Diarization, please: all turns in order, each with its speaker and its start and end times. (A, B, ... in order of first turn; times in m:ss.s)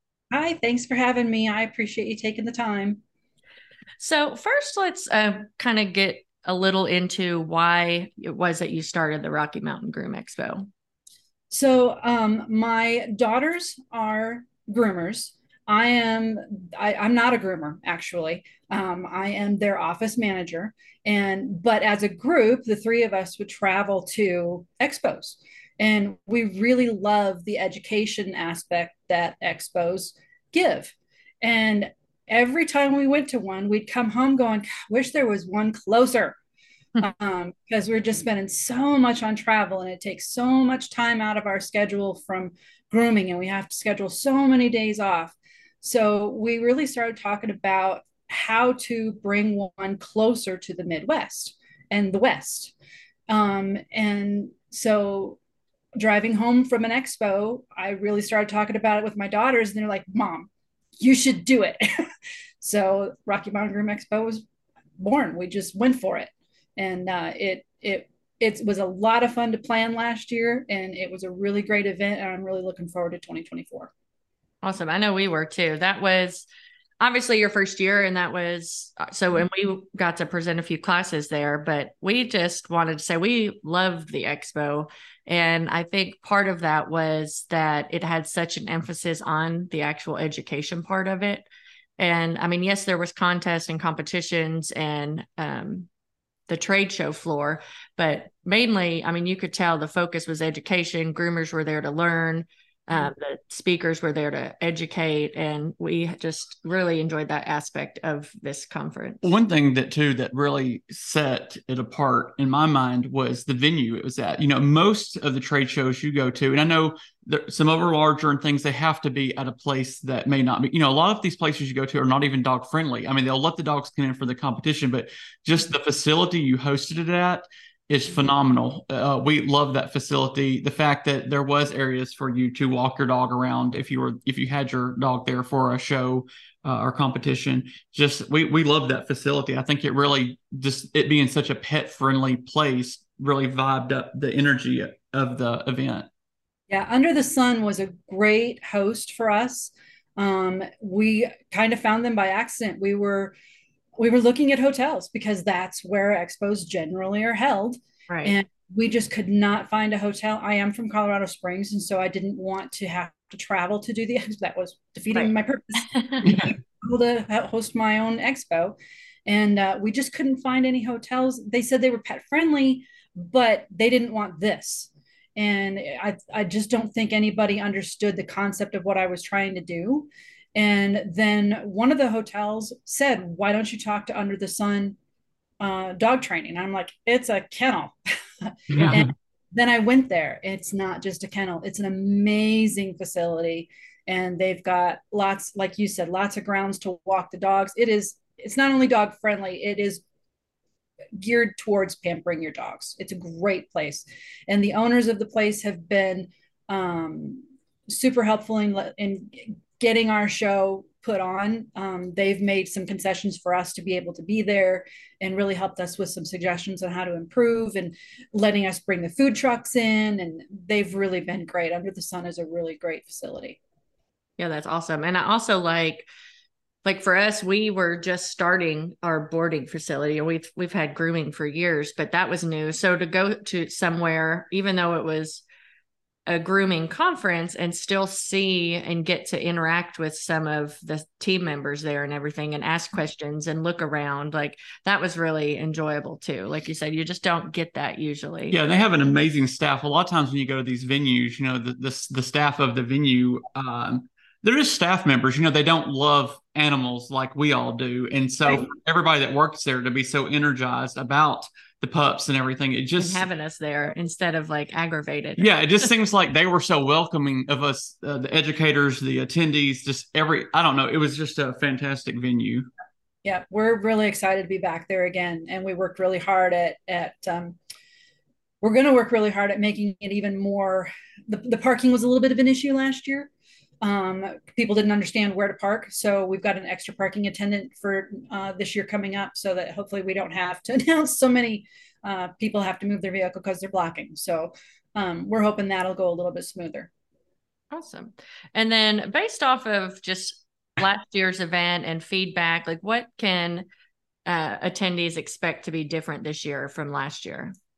0:00.3-0:03.0 A
0:04.0-0:10.7 B
0:11.5-0:36.4 A
0:37.0-0:52.7 A
0:53.3-0:55.4 A
0:56.0-1:01.8 A
1:02.6-1:04.4 A
1:05.0-1:13.9 A
1:14.6-1:16.5 B
1:17.0-1:31.5 B
1:32.0-1:35.9 B
1:36.5-1:49.3 B
1:49.2-2:26.1 C
2:26.7-2:33.4 A
2:34.0-2:48.8 A
2:38.1-2:38.3 B
2:45.9-2:46.3 B
2:46.2-2:46.5 C
2:49.3-3:05.0 A
3:05.6-3:20.0 A
3:08.7-3:09.1 C
3:21.2-3:43.6 A
3:44.4-3:46.1 B
3:46.8-3:55.4 B
3:56.3-4:08.6 B
4:08.5-4:23.3 C
4:23.0-4:25.5 B
4:25.4-4:32.7 C
4:33.2-4:37.6 A
4:38.6-4:43.3 A
4:43.8-4:56.9 A
4:57.7-5:03.7 B
5:04.3-5:07.5 B